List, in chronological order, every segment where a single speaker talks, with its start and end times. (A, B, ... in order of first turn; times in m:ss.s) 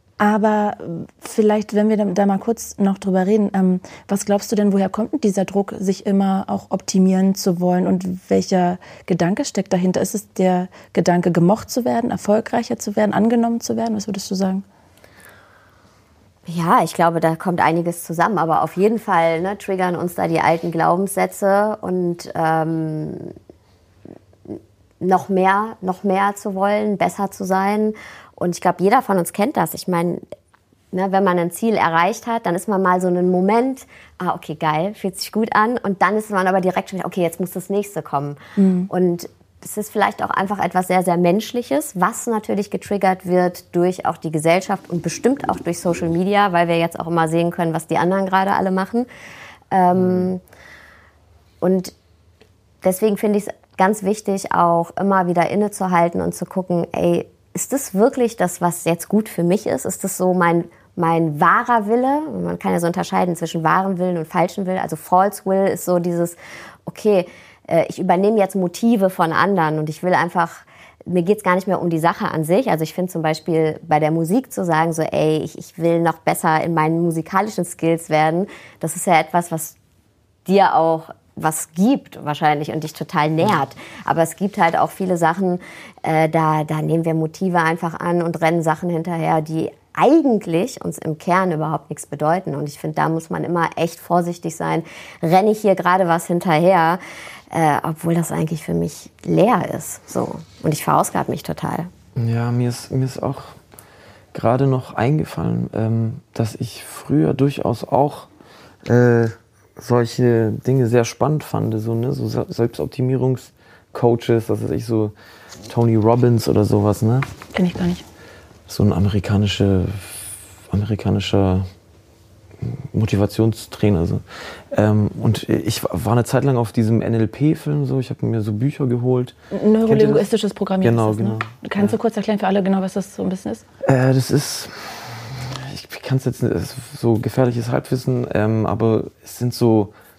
0:00.2-0:14.6 A
0:16.5-0:23.4 B
0:24.5-0:30.2 B
0:30.9-0:49.1 B
0:38.6-0:38.9 A
0:49.7-0:50.4 B
0:50.0-0:50.3 C
0:51.6-0:51.9 B
0:52.8-1:19.8 B
1:20.5-1:41.9 B
1:42.2-1:43.6 C
1:44.3-1:48.3 C
1:48.9-1:55.1 C
1:55.7-1:57.3 C
1:57.5-1:58.0 A
1:58.7-2:01.7 C
2:02.6-2:09.4 C
2:09.5-2:13.6 A
2:09.9-2:10.3 C
2:10.8-2:12.0 C
2:13.8-2:19.9 C